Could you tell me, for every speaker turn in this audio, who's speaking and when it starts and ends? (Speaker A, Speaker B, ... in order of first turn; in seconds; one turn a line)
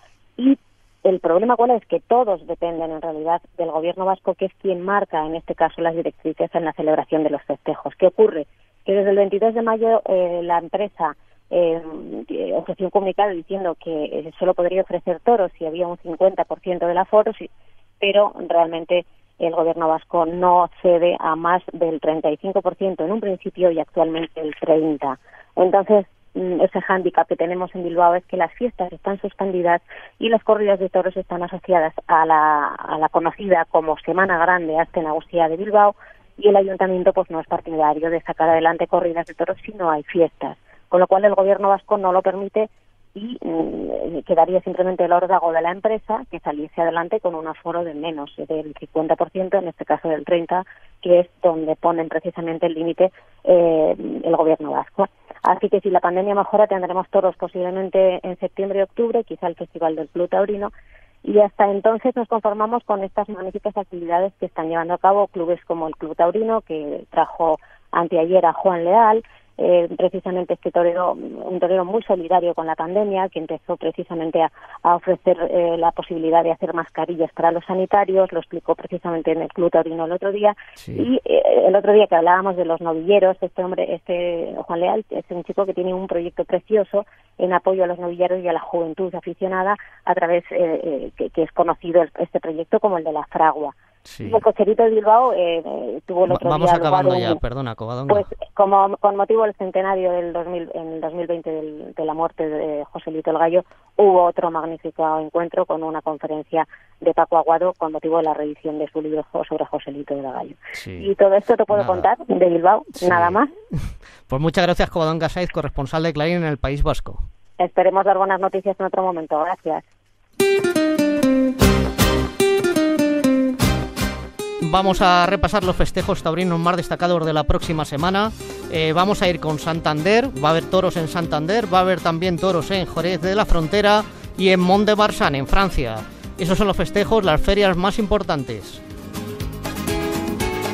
Speaker A: 0.4-17.5
Speaker A: 18.0-60.7
Speaker A: 61.2-97.4
Speaker B: 80.8-81.1
Speaker B: 94.0-94.4
Speaker B: 96.3-98.3
Speaker A: 98.1-113.5
Speaker B: 110.7-111.1
Speaker B: 111.7-112.1
Speaker B: 113.0-117.2
Speaker A: 117.6-119.8
Speaker B: 124.6-138.8